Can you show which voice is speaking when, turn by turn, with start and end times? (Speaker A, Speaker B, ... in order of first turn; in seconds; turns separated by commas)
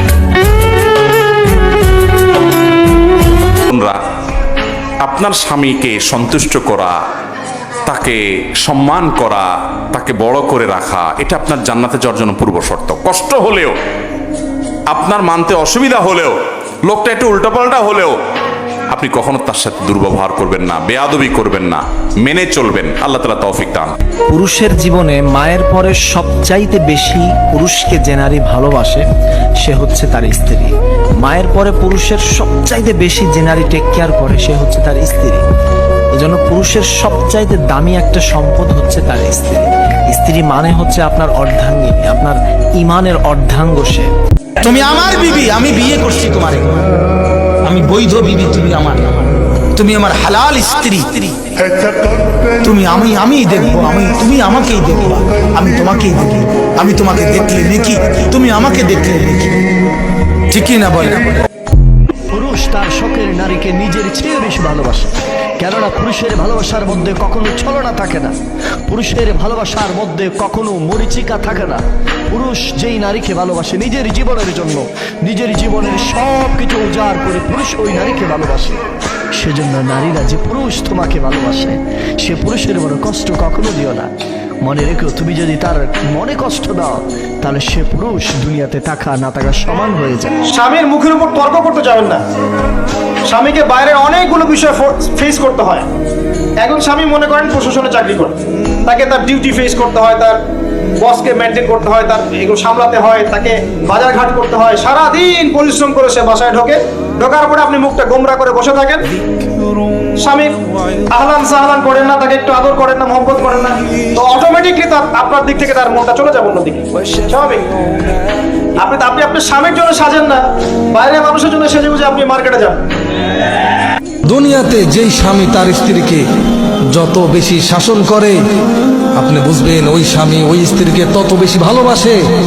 Speaker A: 3.7-4.0, Speaker A: 5.0-7.0, Speaker A: 7.9-13.7, Speaker A: 14.9-16.3, Speaker A: 16.9-18.1, Speaker A: 18.9-23.9, Speaker B: 24.3-29.0, Speaker B: 29.6-30.7, Speaker B: 31.2-35.4, Speaker B: 36.2-44.1, Speaker C: 44.6-46.8, Speaker C: 47.6-49.1, Speaker C: 49.7-51.4, Speaker C: 52.6-59.6, Speaker C: 60.5-61.4, Speaker D: 62.3-68.3, Speaker D: 68.9-78.8, Speaker D: 79.3-84.1, Speaker D: 84.6-90.3, Speaker E: 90.5-92.2, Speaker E: 93.3-95.8, Speaker E: 96.6-98.3, Speaker E: 98.9-100.4, Speaker E: 101.0-109.1, Speaker E: 110.2-110.5, Speaker E: 111.1-117.6, Speaker E: 118.8-120.4, Speaker E: 120.9-122.8, Speaker F: 124.3-126.2, Speaker F: 126.9-128.4, Speaker F: 129.2-132.2